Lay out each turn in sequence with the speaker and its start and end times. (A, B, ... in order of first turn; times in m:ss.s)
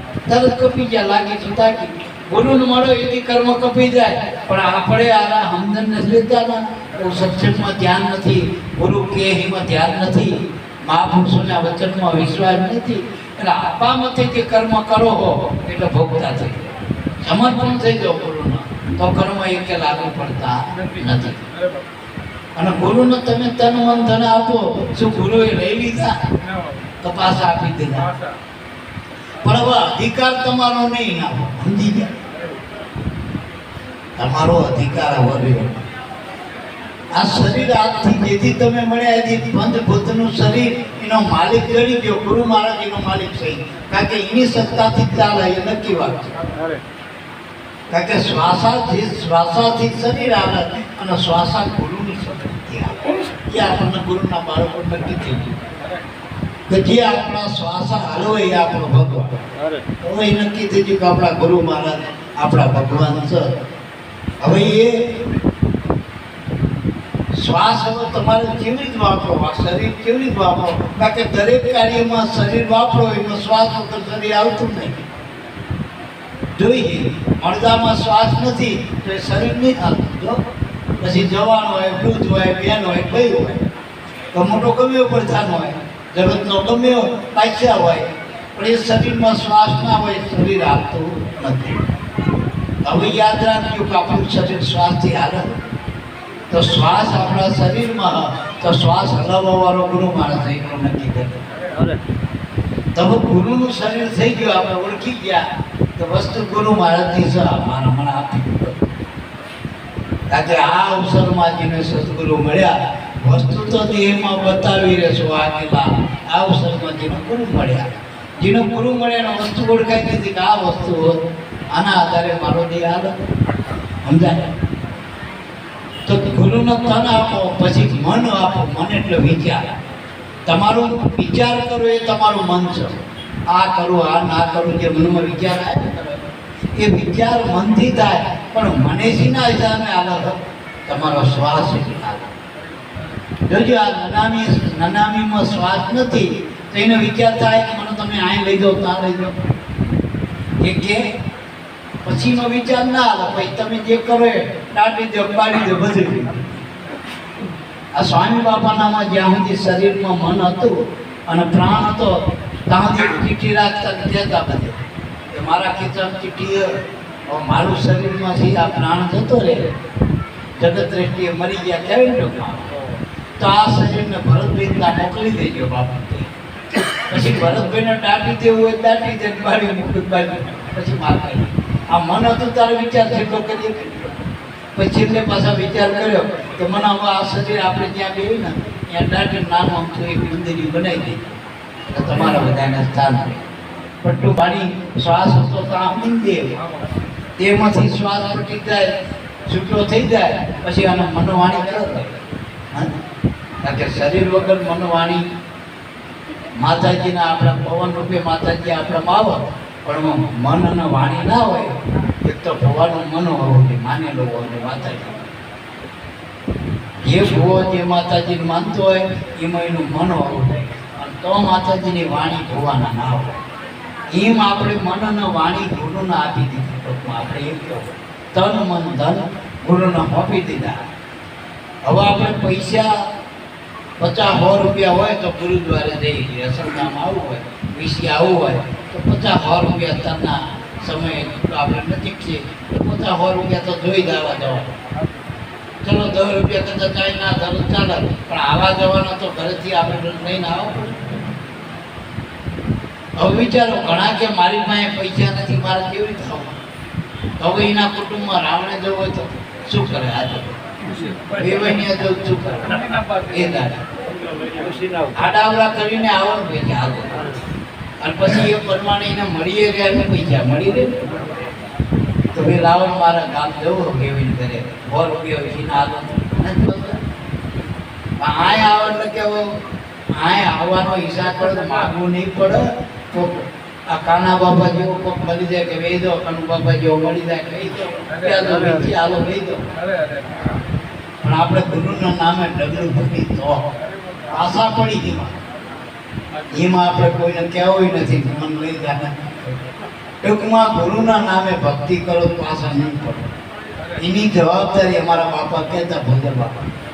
0:00.3-0:10.3 A
0:10.9-0:16.7 A
0:17.2-0:21.4 A
0:22.6-0:26.2 A
0:27.0-0:28.1 A
0:29.4-0:32.1 A
0:34.2-0:35.8 A
0:37.2-0:46.3 A
0:47.9-0:55.6 A
0:56.7-0:59.4 A
1:00.0-1:03.5 A
1:04.4-1:04.9 A
1:07.4-1:14.9 A
1:16.6-1:20.4 A
1:21.0-1:23.6 A
1:24.3-1:31.8 A
1:32.8-1:35.4 A
1:36.5-1:41.4 A
1:43.0-1:45.4 A
1:46.0-1:48.9 A
1:50.3-1:52.7 A
1:53.2-1:57.9 A
1:58.4-2:01.2 A
2:01.7-2:03.1 A
2:04.0-2:04.5 A
2:06.1-2:09.7 A
2:10.5-2:13.0 A
2:13.5-2:16.1 A
2:16.8-2:20.4 A
2:20.9-2:22.3 A
2:23.5-2:29.3 A
2:30.6-2:31.0 A
2:32.0-2:36.4 A
2:38.0-2:40.7 A
2:41.3-2:44.8 A
2:45.3-2:46.7 A
2:47.3-2:49.6 A
2:50.6-2:52.7 A
2:53.4-2:56.3 A
2:57.1-3:04.1 A
3:04.7-3:11.2 A
3:11.9-3:13.4 A
3:14.0-3:16.5 A
3:17.4-3:18.9 A
3:19.5-3:22.1 A
3:23.6-3:25.2 A
3:26.6-3:35.2 A
3:37.1-3:43.4 A
3:44.1-3:50.8 A
3:51.8-3:52.9 A
3:54.0-4:04.7 A
4:05.8-4:11.0 A
4:13.2-4:16.5 A
4:17.4-4:20.5 A
4:21.3-4:23.8 A
4:25.1-4:27.2 A
4:28.0-4:31.3 A
4:32.3-4:37.0 A
4:38.2-4:39.5 A
4:40.2-4:49.6 A
4:51.2-4:53.6 A
4:54.3-4:55.3 A
4:56.5-4:59.5 A
5:00.2-5:03.3 A
5:04.0-5:06.6 A